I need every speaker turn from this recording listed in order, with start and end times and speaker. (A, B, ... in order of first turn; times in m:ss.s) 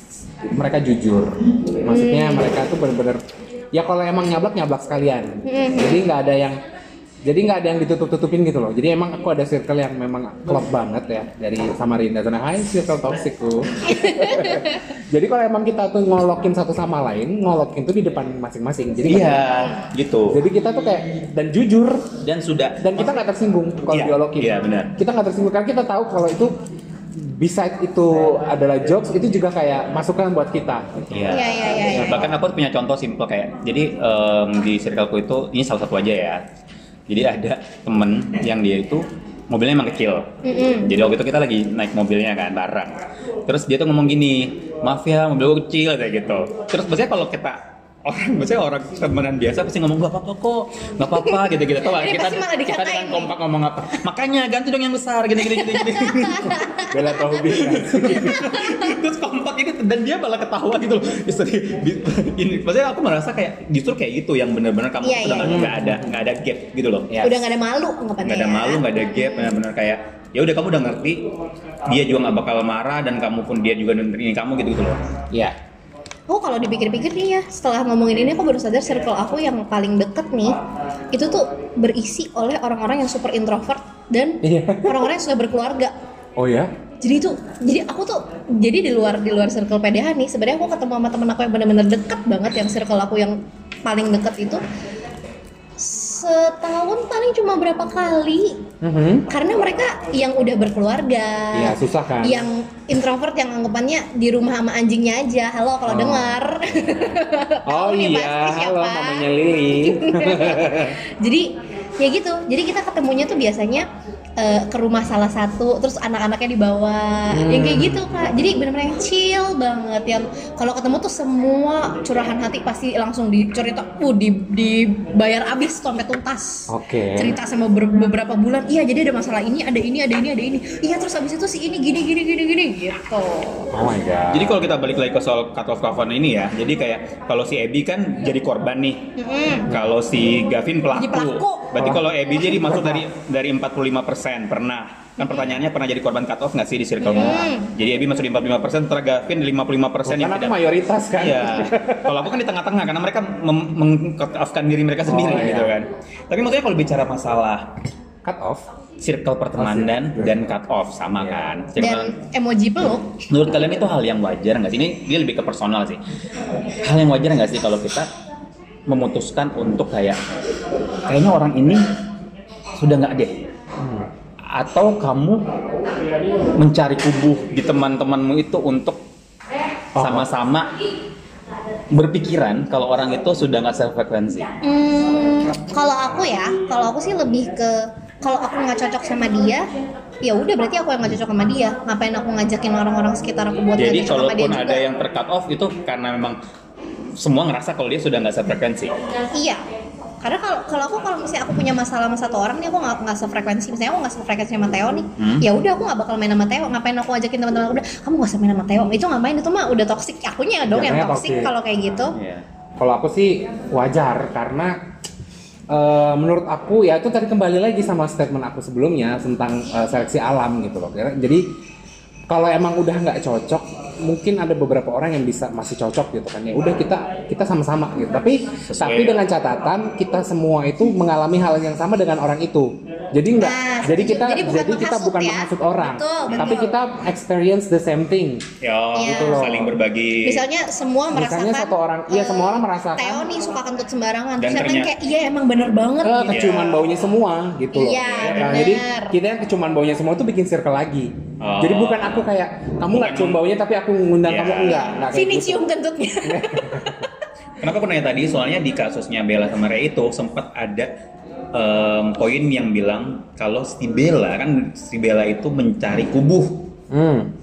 0:00.4-0:01.3 A
0:01.8-0:06.6 A
0:01.9-0:02.5 B
0:05.4-0:06.0 B
0:07.2-0:19.5 A
0:13.9-0:14.8 B
0:19.1-0:20.4 C
0:20.3-0:22.2 A
0:22.2-0:23.2 C
0:22.8-0:26.5 A
0:23.9-0:24.9 C
0:27.2-0:31.3 A
0:31.1-0:36.4 C
0:31.3-0:32.3 B
0:31.9-0:32.4 A
0:37.1-0:56.6 C
0:40.4-0:40.9 B
0:51.2-0:53.3 B
0:55.4-0:58.9 B
0:56.9-0:58.4 A
0:57.4-1:07.2 C
1:05.0-1:05.6 B
1:05.4-1:06.2 A
1:07.1-1:07.4 A
1:07.2-1:09.6 B
1:08.2-1:11.2 C
1:11.8-1:15.0 C
1:16.3-1:20.6 B
1:21.1-1:26.0 B
1:24.4-1:25.1 A
1:26.4-1:26.7 A
1:27.0-1:34.6 B
1:35.8-1:38.7 B
1:38.8-1:39.3 A
1:39.3-2:13.7 B
1:41.5-1:42.5 A
1:45.9-1:47.0 A
1:47.7-1:51.0 A
1:57.3-1:58.4 A
2:06.7-2:07.4 A
2:13.7-2:14.6 A
2:14.3-2:19.0 C
2:19.2-2:19.7 B
2:19.7-2:30.6 C
2:20.9-2:21.8 B
2:21.8-2:23.1 A
2:25.2-2:25.5 B
2:27.0-2:27.7 B
2:27.1-2:27.4 A
2:30.0-2:32.3 A
2:31.2-2:37.7 C
2:35.0-2:35.8 A
2:38.2-2:38.7 A
2:39.0-2:42.1 C
2:39.6-2:40.4 A
2:41.2-2:41.5 A
2:41.8-2:43.2 B
2:43.3-2:46.0 C
2:46.8-2:48.1 C
2:48.9-2:50.2 C
2:51.0-2:51.8 C
2:52.8-2:53.4 C
2:53.8-2:54.1 A
2:54.5-2:55.5 C
2:56.6-2:59.0 C
3:00.0-3:00.3 A
3:00.0-3:00.8 C
3:01.9-3:04.5 C
3:04.6-3:09.7 B
3:10.2-3:14.8 B
3:13.8-3:16.4 C
3:17.2-3:18.9 C
3:19.3-3:19.6 B
3:20.2-3:32.2 B
3:25.2-3:25.5 C
3:30.7-3:32.1 A
3:32.1-3:32.4 C
3:32.8-3:34.8 A
3:35.7-3:41.5 A
3:42.3-3:58.5 A
3:48.7-3:49.2 C
3:53.4-3:56.8 B
3:56.3-3:56.6 C
3:58.6-4:00.4 C
3:59.0-3:59.6 B
3:59.0-3:59.8 A
4:00.2-4:06.4 B
4:01.1-4:03.3 A
4:04.4-4:04.9 C
4:06.0-4:17.1 A
4:06.3-4:06.8 C
4:07.7-4:09.2 B
4:08.0-4:08.6 C
4:11.4-4:12.3 C
4:12.9-4:13.4 C
4:14.2-4:14.9 C
4:14.6-4:17.2 B
4:17.6-4:20.9 C
4:21.5-4:26.7 C
4:26.9-4:27.3 A